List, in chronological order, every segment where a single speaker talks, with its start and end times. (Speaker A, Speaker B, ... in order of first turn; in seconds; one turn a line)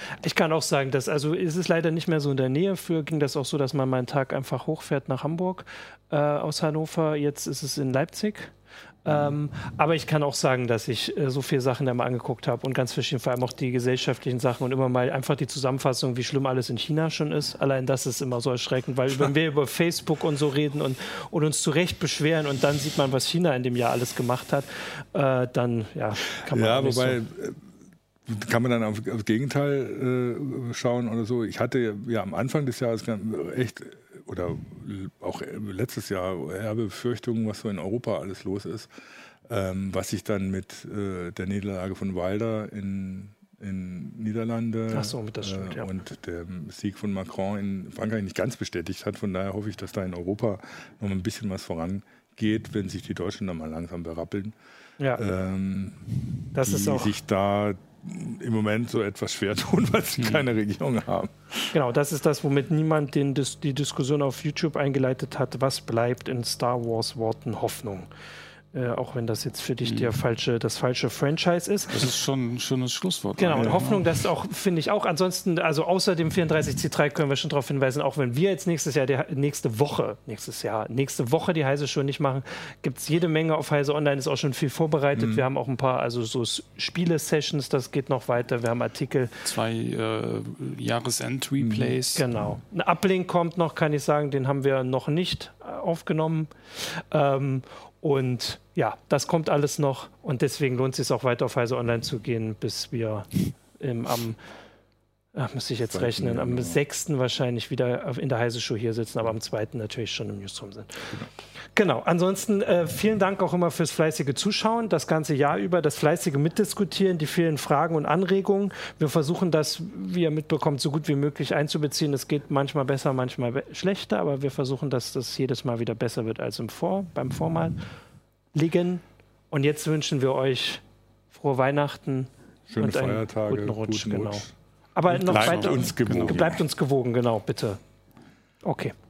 Speaker A: 0.2-27.2
Speaker B: 9.1-9.3
Speaker B: 26.4-27.6
Speaker B: 28.3-38.9
Speaker B: 39.5-54.5
Speaker A: 44.9-45.9
Speaker B: 55.1-56.1
Speaker A: 56.5-57.1
Speaker B: 56.6-61.7
Speaker A: 61.7-68.1
Speaker A: 68.7-72.0
Speaker C: 69.8-70.1
Speaker C: 71.9-74.2
Speaker A: 73.4-89.4
Speaker B: 73.5-73.8
Speaker B: 85.1-85.5
Speaker C: 89.4-92.2
Speaker B: 91.6-91.9
Speaker A: 92.1-104.4
Speaker A: 105.3-111.1
Speaker B: 105.9-106.8
Speaker A: 111.7-127.8
Speaker A: 128.5-137.8
Speaker B: 132.7-134.5
Speaker B: 135.1-136.6
Speaker C: 135.2-136.4
Speaker A: 138.6-139.0